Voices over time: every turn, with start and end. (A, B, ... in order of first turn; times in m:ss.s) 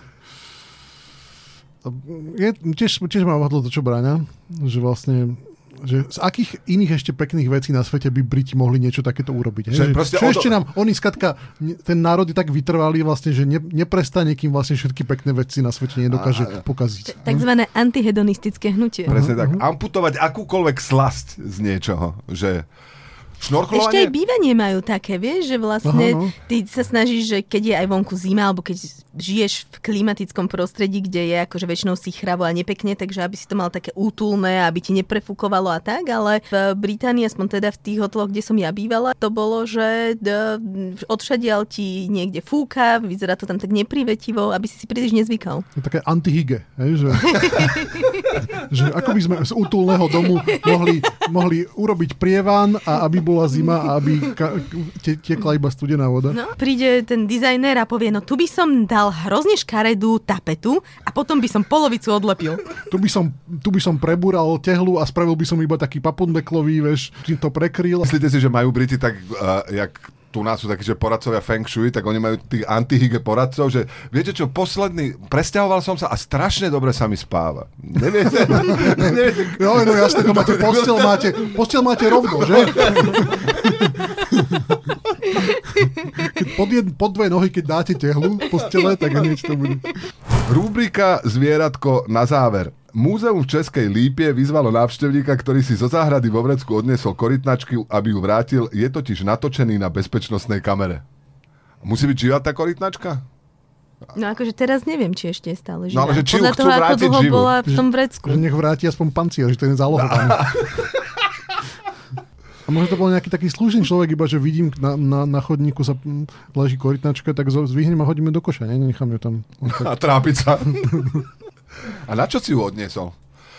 0:01.8-0:17.2 A
0:09.7-0:10.6 B
0:16.1-0:16.6 B
0:17.1-0:19.2 C
0:19.1-0:19.6 A
0:19.1-0:22.7 B
0:23.4-0:24.1 B
0:23.7-0:45.7 C
0:25.8-0:26.3 A
0:45.8-0:47.8 A
0:47.2-0:48.3 C
0:48.4-0:56.4 A
0:56.3-1:02.7 C
1:02.9-1:08.1 A
1:08.0-1:21.5 B
1:18.4-1:24.8 A
1:22.2-1:23.3 B
1:26.1-1:29.9 A
1:30.5-1:41.0 B
1:41.8-1:43.2 B
1:44.1-1:48.4 C
1:45.9-1:47.5 B
1:47.7-1:50.6 A
1:50.3-1:50.9 B
1:52.7-1:59.9 A
1:59.6-2:01.2 B
2:02.0-2:03.2 B